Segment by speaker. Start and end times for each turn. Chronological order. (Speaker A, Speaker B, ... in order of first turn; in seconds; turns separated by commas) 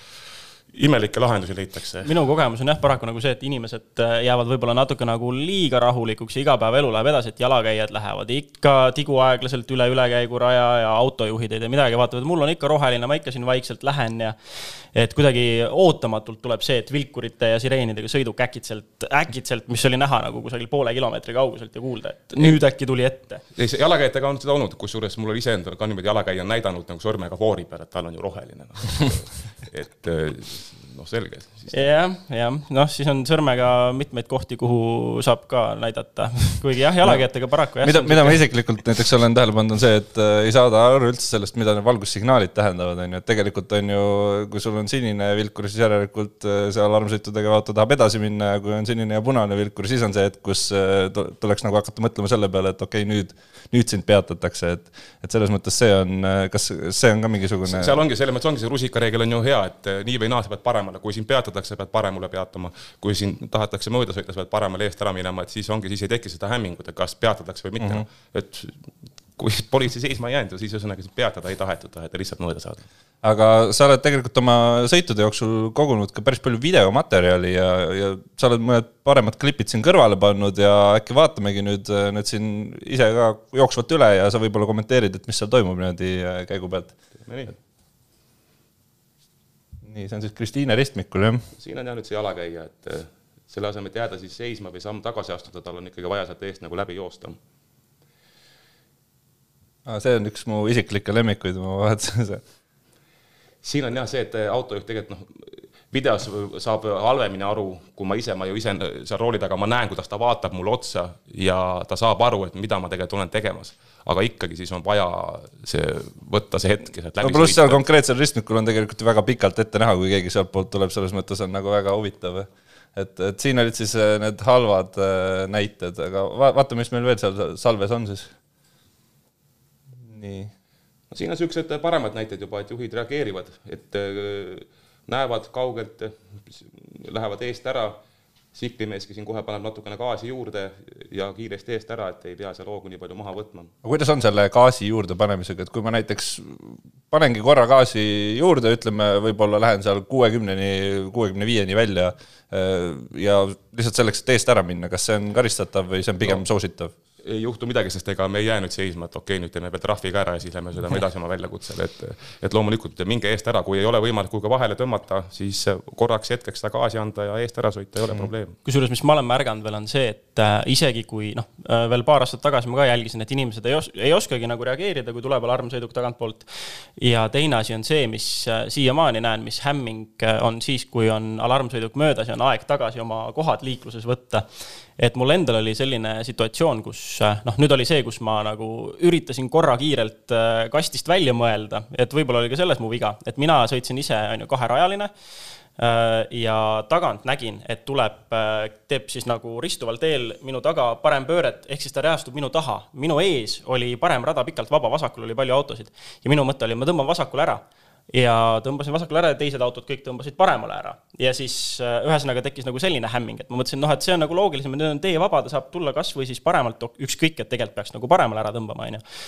Speaker A: 0.7-2.1, Speaker B: 2.0-23.4, Speaker A: 23.5-31.9, Speaker B: 31.7-38.4, Speaker C: 37.8-57.9, Speaker A: 57.6-68.8, Speaker C: 67.8-68.0, Speaker A: 69.4-72.8, Speaker C: 73.2-87.0, Speaker A: 87.2-87.5, Speaker C: 89.8-91.4, Speaker A: 91.5-97.4, Speaker C: 99.8-102.4, Speaker A: 103.6-117.8, Speaker C: 117.2-128.3, Speaker C: 130.0-130.5, Speaker A: 131.1-138.0, Speaker A: 138.5-143.7, Speaker C: 143.8-156.9, Speaker A: 157.2-168.6, Speaker B: 168.6-195.1, Speaker B: 195.8-219.0